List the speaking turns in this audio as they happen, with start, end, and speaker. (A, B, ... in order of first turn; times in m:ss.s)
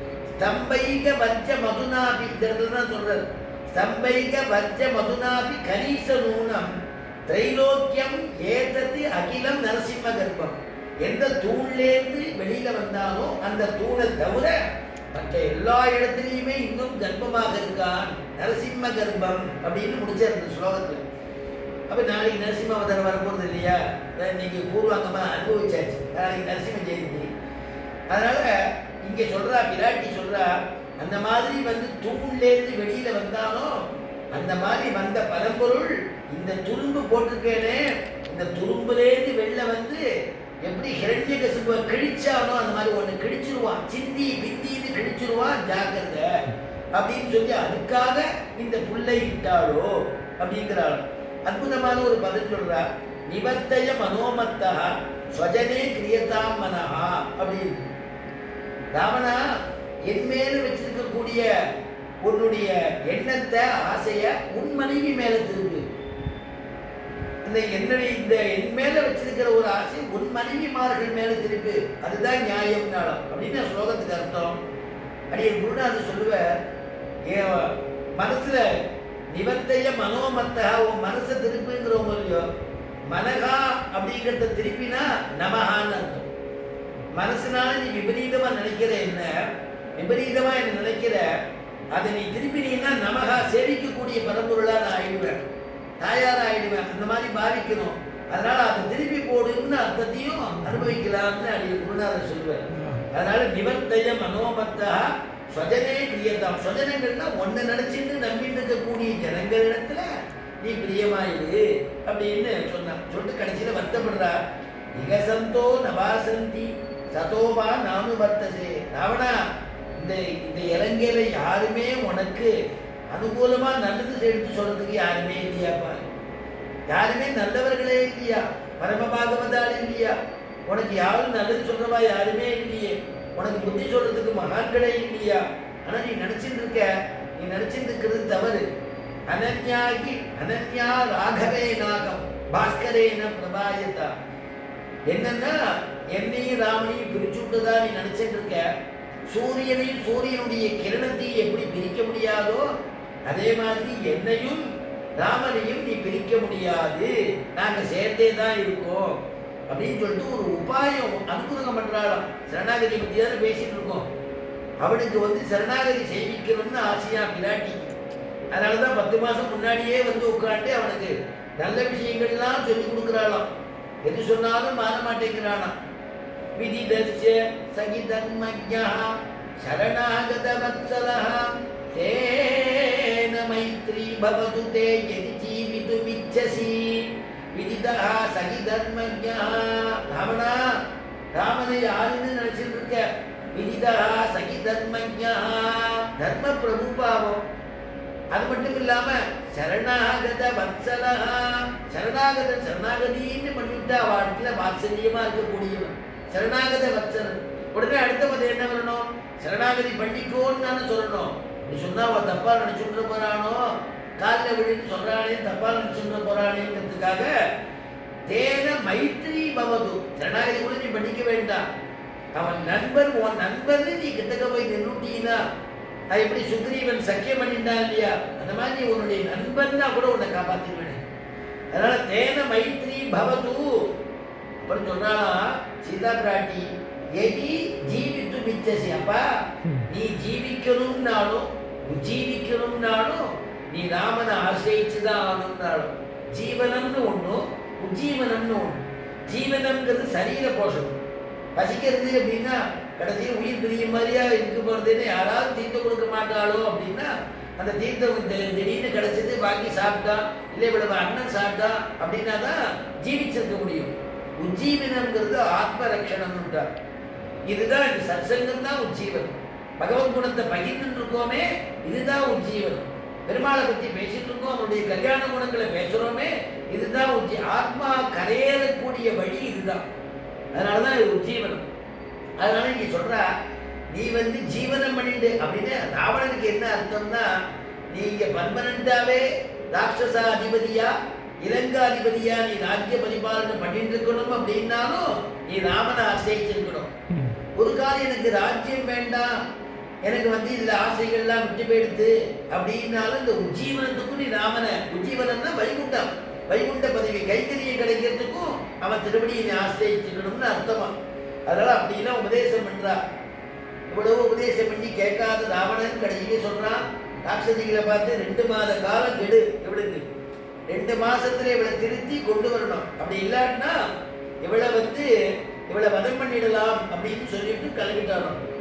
0:00.4-0:06.7 A
0:07.3-0:14.6 A
0:15.1-0:21.0 A
0:21.9-0:27.3 A
0:28.1-0:40.0 A
0:40.6-0:46.3 A
0:47.0-0:57.8 A
0:58.9-0:59.6 A
1:00.1-1:01.5 A
1:02.2-1:05.8 A
1:07.4-1:14.6 A
1:15.3-1:16.6 A
1:17.3-1:18.7 A
1:19.3-1:22.5 A
1:23.1-1:26.3 A
1:27.1-1:31.2 A
1:31.9-1:35.4 A
1:36.0-1:50.1 A
1:50.6-1:54.4 A
1:55.0-2:02.6 A
2:03.1-2:06.0 A
2:06.9-2:10.2 A
2:10.7-2:18.7 A
2:19.3-2:24.1 A
2:25.1-2:28.7 A
2:29.3-2:32.7 A
2:33.3-2:44.1 A
2:44.8-2:47.9 A
2:48.5-2:53.5 A
2:54.0-2:55.8 A
2:56.6-3:10.8 A
3:11.3-3:17.4 A
3:18.3-3:37.3 A
3:38.3-3:41.7 A
3:42.4-3:45.4 A
3:46.1-3:51.0 A
3:51.7-3:53.9 A
3:54.6-4:11.0 A
4:11.6-4:26.7 A
4:27.5-4:39.9 A
4:40.5-4:41.7 A
4:42.4-4:43.3 A
4:43.9-4:47.3 A
4:47.9-4:59.4 A
5:00.1-5:10.9 A
5:11.5-5:13.0 A
5:13.9-5:20.0 A
5:20.7-5:23.8 A
5:24.4-5:25.1 A
5:25.7-5:28.4 A